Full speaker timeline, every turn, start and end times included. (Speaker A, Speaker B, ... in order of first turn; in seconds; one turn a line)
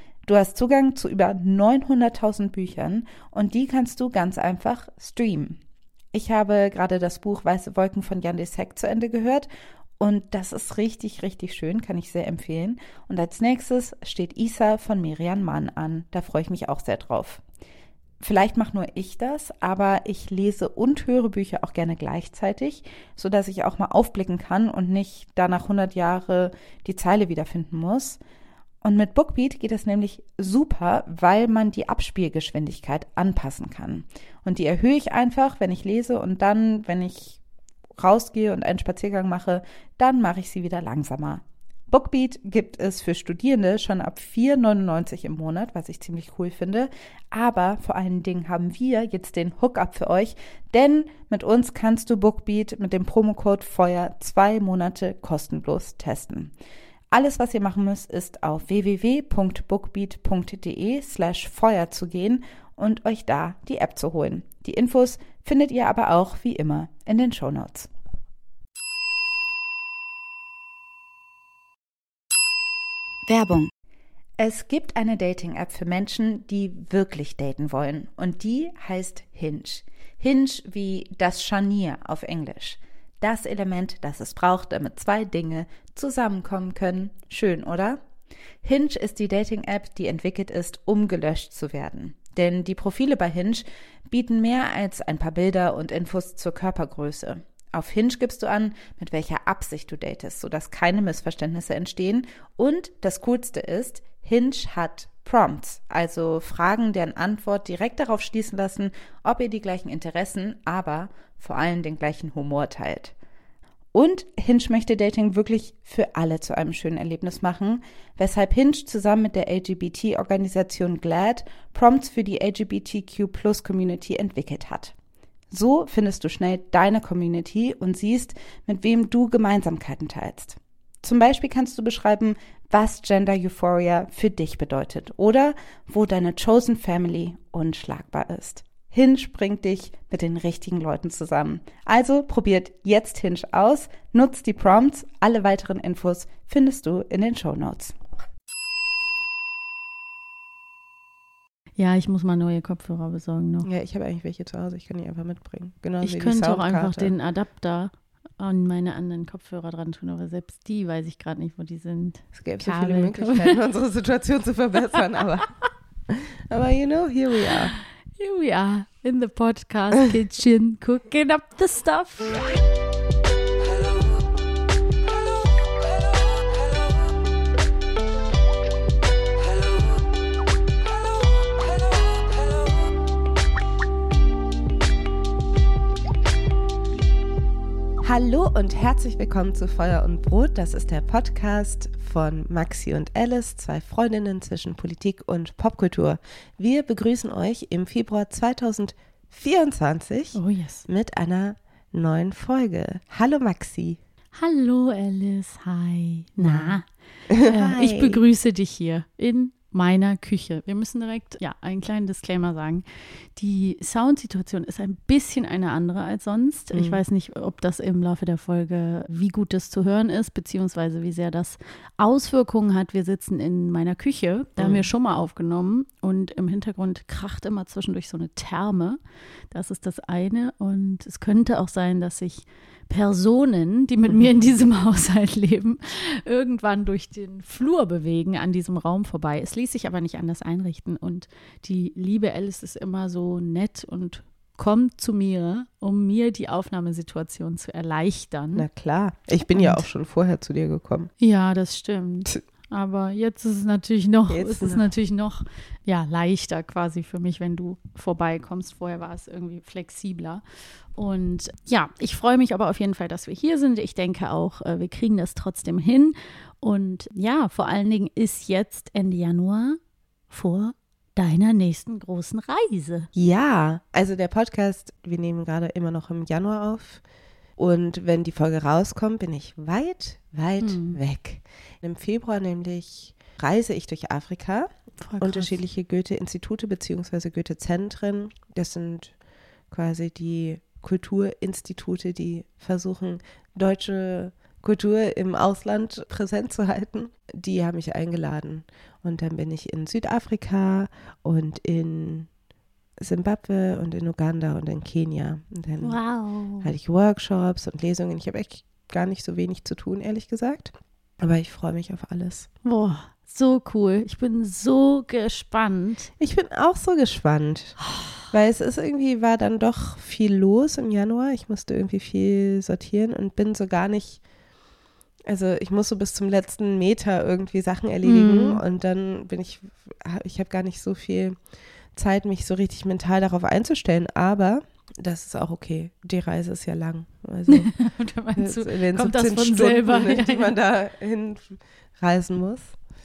Speaker A: 0.2-5.6
Speaker A: 6.1-9.5
Speaker A: 10.0-17.4
Speaker A: 18.2-28.2
Speaker A: 28.8-37.4
Speaker A: 38.0-56.5
Speaker A: 57.1-67.9
Speaker A: 73.2-73.7
Speaker A: 74.4-88.0
Speaker A: 88.6-113.1
Speaker A: 113.9-124.9
Speaker A: 125.5-147.9
Speaker B: 151.8-153.7
Speaker C: 153.6-157.1
Speaker B: 156.0-163.6
Speaker C: 162.3-165.5
Speaker C: 166.1-167.7
Speaker B: 168.2-172.4
Speaker C: 188.0-204.0
Speaker B: 200.3-200.8
Speaker B: 204.3-206.8
Speaker C: 206.4-206.8
Speaker C: 207.3-208.2
Speaker B: 207.4-212.8
Speaker B: 213.3-229.0
Speaker C: 216.7-217.0
Speaker C: 224.6-224.8
Speaker B: 229.5-248.7
Speaker C: 248.5-251.1
Speaker B: 249.5-249.8
Speaker B: 251.2-260.4
Speaker C: 254.3-254.8
Speaker B: 260.9-269.8
Speaker B: 270.3-273.1
Speaker C: 273.1-277.0
Speaker C: 277.6-289.1
Speaker B: 280.6-281.0
Speaker B: 285.0-285.5
Speaker C: 289.7-302.3
Speaker C: 303.0-306.0
Speaker B: 305.8-306.7
Speaker C: 306.6-312.5
Speaker B: 312.6-316.1
Speaker C: 316.2-317.8
Speaker C: 318.3-324.2
Speaker C: 325.2-331.4
Speaker B: 328.0-328.6
Speaker C: 331.9-337.7
Speaker B: 337.5-340.5
Speaker C: 338.4-342.8